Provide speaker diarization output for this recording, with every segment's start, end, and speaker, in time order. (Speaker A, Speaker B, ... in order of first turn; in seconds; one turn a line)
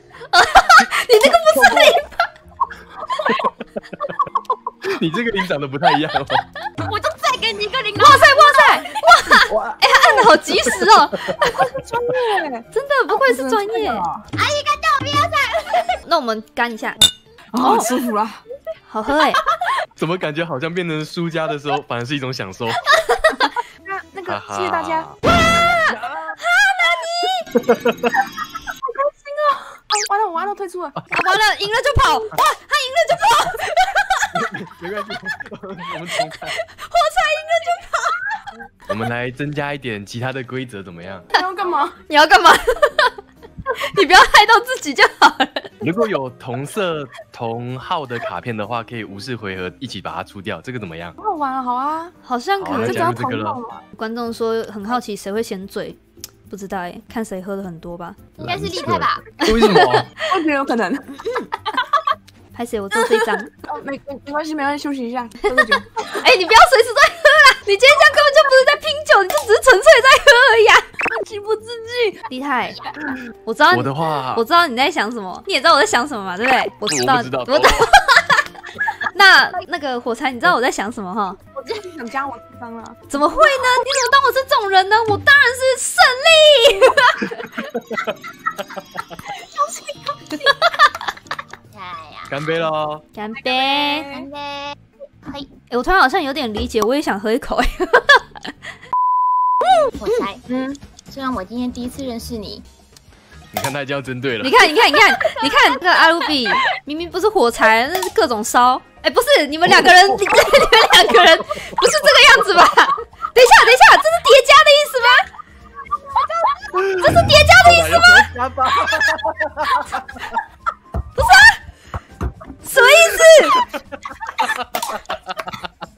Speaker A: 0.3-2.1
Speaker B: 0.8-2.0
Speaker C: 3.1-3.4
Speaker B: 4.8-6.5
Speaker D: 6.8-8.9
Speaker A: 8.0-11.5
Speaker B: 9.5-9.8
Speaker B: 10.4-11.5
Speaker C: 11.4-12.7
Speaker A: 12.7-14.0
Speaker C: 13.2-14.2
Speaker D: 14.3-16.0
Speaker A: 16.0-17.0
Speaker C: 17.5-18.4
Speaker A: 17.6-17.9
Speaker A: 18.9-19.4
Speaker B: 19.9-22.9
Speaker A: 22.9-23.6
Speaker C: 23.8-25.1
Speaker B: 24.2-25.2
Speaker A: 25.3-27.5
Speaker B: 25.9-26.3
Speaker B: 27.6-28.2
Speaker C: 28.8-30.9
Speaker A: 31.1-34.3
Speaker B: 34.3-36.6
Speaker A: 36.2-38.4
Speaker B: 38.9-41.2
Speaker C: 41.3-42.0
Speaker A: 42.0-43.1
Speaker A: 43.7-45.7
Speaker B: 45.8-51.1
Speaker C: 51.2-52.1
Speaker A: 52.2-53.1
Speaker B: 52.6-53.6
Speaker C: 52.8-53.8
Speaker A: 54.0-58.2
Speaker D: 58.4-59.2
Speaker B: 58.4-60.1
Speaker A: 59.4-60.2
Speaker C: 60.3-61.0
Speaker A: 61.1-61.6
Speaker A: 62.5-63.5
Speaker C: 62.9-66.2
Speaker A: 66.0-70.8
Speaker C: 71.0-72.2
Speaker A: 72.3-72.8
Speaker A: 73.4-78.4
Speaker B: 73.7-74.4
Speaker B: 76.8-77.9
Speaker A: 79.0-81.4
Speaker C: 81.5-83.8
Speaker A: 83.1-87.5
Speaker C: 89.3-90.5
Speaker D: 91.7-92.4
Speaker B: 92.3-93.0
Speaker A: 93.1-94.1
Speaker C: 93.4-94.3
Speaker D: 94.0-95.5
Speaker A: 95.7-98.5
Speaker A: 99.7-100.2
Speaker D: 99.9-100.5
Speaker C: 100.5-100.8
Speaker D: 101.0-102.6
Speaker B: 103.5-104.8
Speaker A: 104.4-115.2
Speaker B: 109.7-110.7
Speaker B: 111.6-112.2
Speaker D: 116.1-116.8
Speaker B: 116.7-120.1
Speaker A: 117.0-118.3
Speaker A: 121.1-121.6
Speaker A: 122.6-123.7
Speaker B: 124.4-125.6